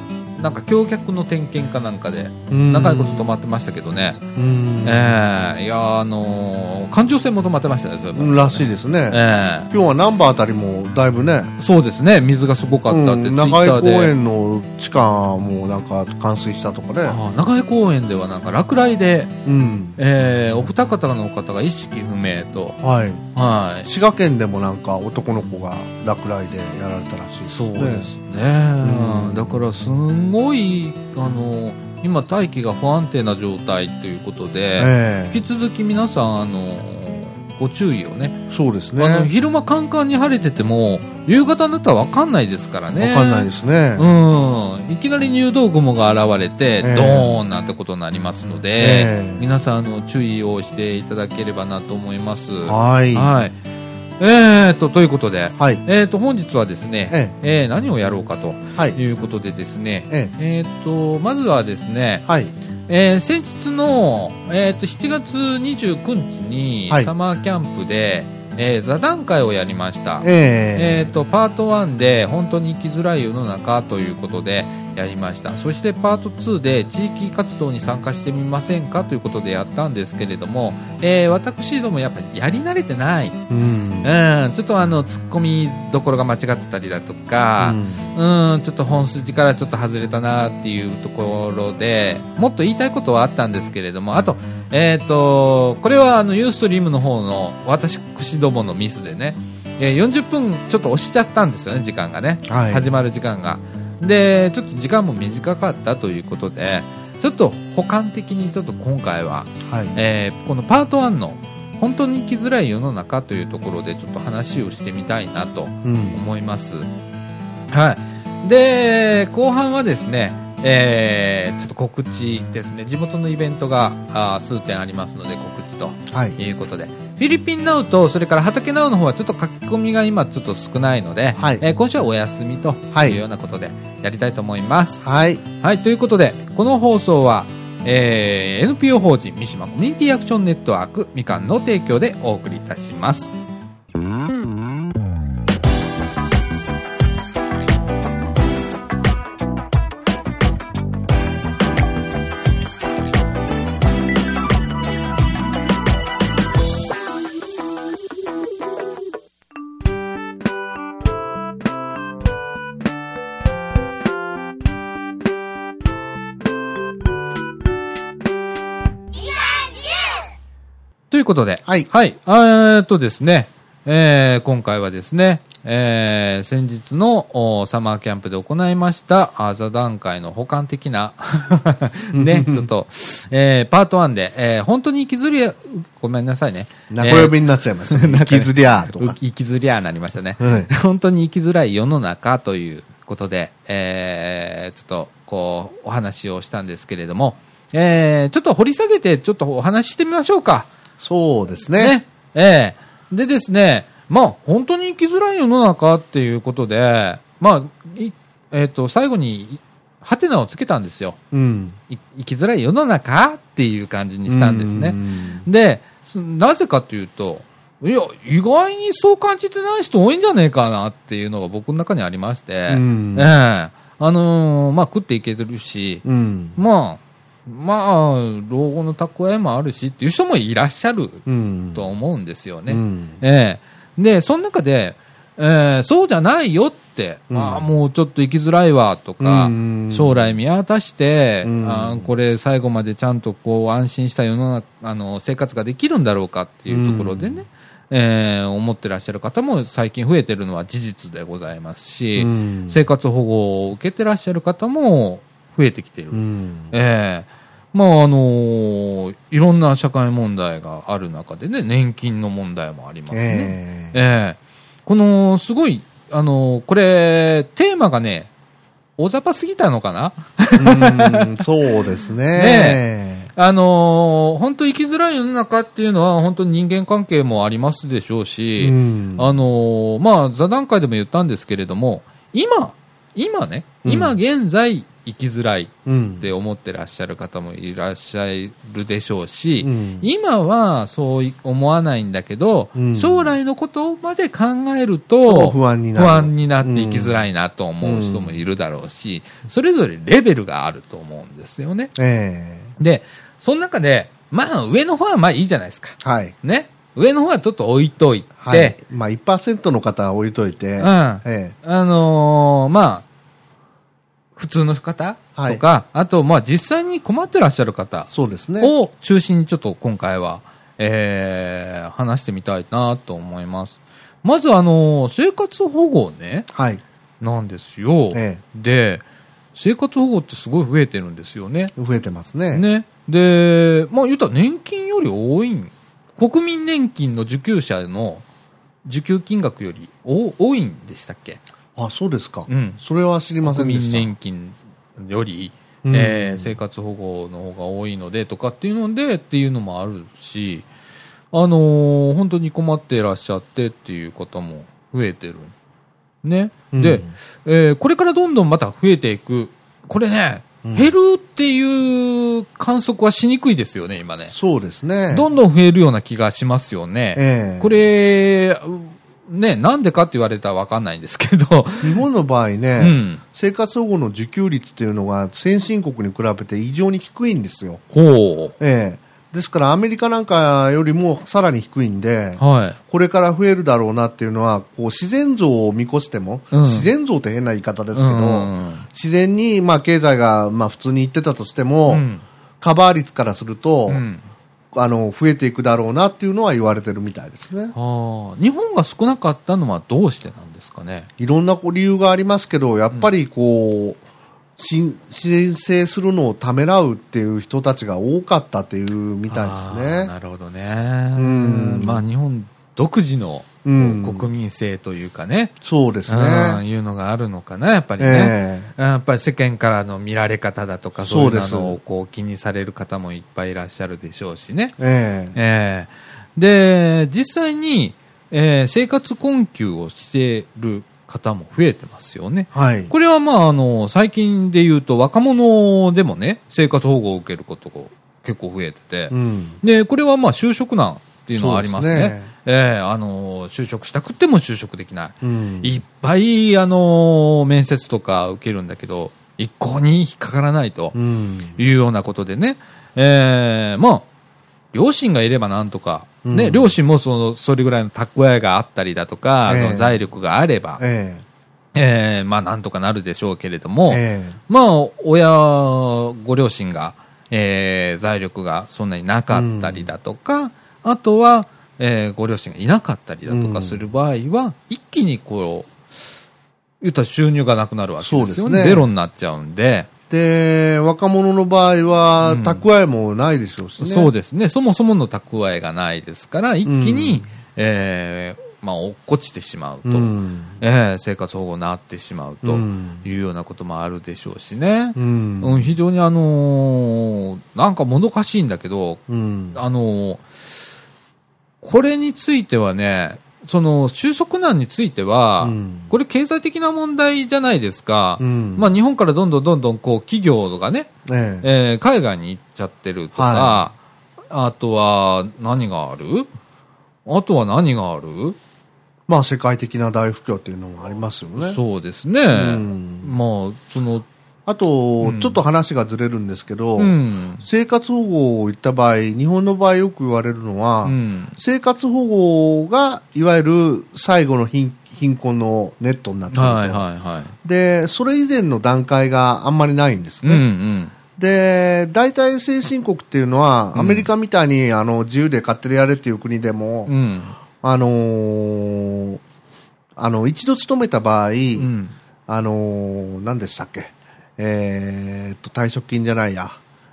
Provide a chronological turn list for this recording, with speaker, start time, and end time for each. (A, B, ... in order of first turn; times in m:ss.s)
0:00.4-0:04.2 A
0:02.5-0:03.2 B
0:04.4-0:05.2 B
0:04.8-0:09.7 A
0:08.2-0:11.5 B
0:11.6-0:14.1 A
0:12.9-0:17.2 B
0:17.0-0:19.3 A
0:19.4-0:20.0 B
0:20.0-0:22.8 A
0:22.8-0:23.3 B
0:23.4-0:23.9 A
0:23.8-0:28.1 B
0:27.5-0:38.4 A
0:28.8-0:29.6 B
0:34.8-0:35.4 B
0:38.5-0:39.3 B
0:39.0-0:53.6 A
0:43.0-0:44.1 B
0:46.8-0:47.4 B
0:48.8-0:49.4 B
0:52.6-0:53.3 B
0:54.2-1:02.3 A
1:02.3-1:02.5 B
1:02.9-1:23.4 A
1:10.2-1:11.1 B
1:23.5-1:24.1 B
1:24.0-1:56.9 A
1:27.6-1:28.0 B
1:42.5-1:42.9 B
1:49.7-1:50.0 B
1:55.8-1:56.2 B
1:57.7-2:15.0 A
2:06.1-2:06.4 B
2:11.4-2:11.6 B
2:12.9-2:13.2 B
2:15.0-2:15.4 B
2:15.6-2:23.3 A
2:51.1-3:20.7 A
3:02.1-3:02.7 B
3:06.9-3:09.2 B
3:10.4-3:10.7 B
3:21.0-3:22.0 B
3:21.8-3:31.2 A
3:31.3-3:31.8 B
3:31.9-3:46.0 A
3:34.3-3:35.4 B
3:42.7-3:43.3 B
3:46.0-3:46.6 B
3:46.6-4:28.3 A
3:51.3-3:51.8 B
3:52.7-3:53.2 B
3:57.3-3:57.7 B
3:59.2-4:00.3 B
4:01.4-4:02.1 B
4:06.7-4:07.4 B
4:12.2-4:12.8 B
4:16.1-4:16.7 B
4:23.1-4:24.0 B
4:29.0-4:31.4 A
4:30.6-4:33.3 B
4:32.3-4:32.8 A
4:33.4-5:01.9 A
4:38.6-4:39.3 B
4:43.8-4:44.2 B
4:45.9-4:46.3 B
4:49.6-4:50.1 B
4:52.8-4:53.3 B
4:55.3-4:57.2 B
4:57.8-4:58.4 B
5:02.0-5:02.7 B
5:02.8-5:08.8 A
5:06.0-5:06.4 B
5:08.4-5:11.6 B
5:10.8-5:13.1 A
5:14.4-5:26.5 A
5:15.4-5:15.6 B
5:18.1-5:18.7 B
5:26.5-5:26.8 B
5:27.2-5:29.0 A
5:28.1-5:28.4 B
5:29.6-5:31.7 A
5:31.8-5:32.6 B
5:32.5-5:38.2 A
5:38.8-5:41.4 A
5:41.8-5:44.1 B
5:42.5-5:42.8 A
5:43.4-5:50.7 A
5:45.8-5:46.6 B
5:51.3-5:55.5 A
5:56.2-6:04.3 A
5:56.7-5:57.1 B
6:00.6-6:00.9 B
6:04.3-6:05.3 B
6:05.1-6:12.0 A
6:07.2-6:07.7 B
6:11.8-6:17.8 B
6:12.8-6:13.2 A
6:17.9-6:18.5 A
6:18.6-6:32.0 B
6:22.4-6:22.8 A
6:26.5-6:26.9 A
6:28.0-6:28.9 A
6:31.9-6:32.2 A
6:32.6-6:34.0 B
6:33.9-6:34.2 A
6:34.7-6:37.7 B
6:37.7-6:41.1 A
6:41.2-6:44.0 B
6:44.6-6:50.1 B
6:49.3-6:55.6 A
6:51.2-6:52.0 B
6:53.6-6:54.3 B
6:55.6-6:56.6 B
6:56.1-7:04.8 A
6:58.0-6:58.7 B
7:01.0-7:01.8 B
7:04.8-7:05.4 B
7:05.3-7:31.0 A
7:12.5-7:12.9 B
7:19.1-7:19.6 B
7:21.4-7:22.3 B
7:25.2-7:25.8 B
7:30.9-7:31.6 B
7:31.6-7:34.1 A
7:34.7-7:40.8 A
7:36.2-7:36.8 B
7:39.5-7:40.0 B
7:40.8-7:41.2 B
7:41.8-7:55.7 A
7:43.9-7:44.4 B
7:49.3-7:49.9 B
7:53.3-7:53.8 B
7:56.8-7:59.9 A
7:58.0-7:58.9 B
8:00.1-8:04.1 B
8:02.2-8:02.6 A
8:03.8-8:19.0 A
8:06.6-8:07.2 B
8:09.8-8:10.6 B
8:12.4-8:13.0 B
8:15.0-8:15.7 B
8:19.1-8:19.6 B
8:19.5-8:20.2 A
8:21.6-8:30.9 A
8:25.4-8:25.9 B
8:28.2-8:28.7 B
8:31.1-8:31.5 B
8:31.4-8:33.8 A
8:33.2-8:33.6 B
8:34.3-8:36.3 A
8:37.1-8:38.4 A
8:39.1-8:41.6 B
8:41.4-8:44.1 A
8:42.3-8:43.2 B
8:44.5-8:56.8 B
8:45.0-8:45.4 A
8:46.8-8:47.4 A
8:50.8-8:51.4 A
8:56.3-8:57.3 A
8:57.4-9:00.4 B
9:00.2-9:00.9 A
9:01.2-9:06.9 B
9:03.7-9:04.1 A
9:06.9-9:07.4 A
9:07.6-9:09.2 B
9:10.0-9:11.7 B
9:11.6-9:12.0 A
9:12.3-9:16.6 B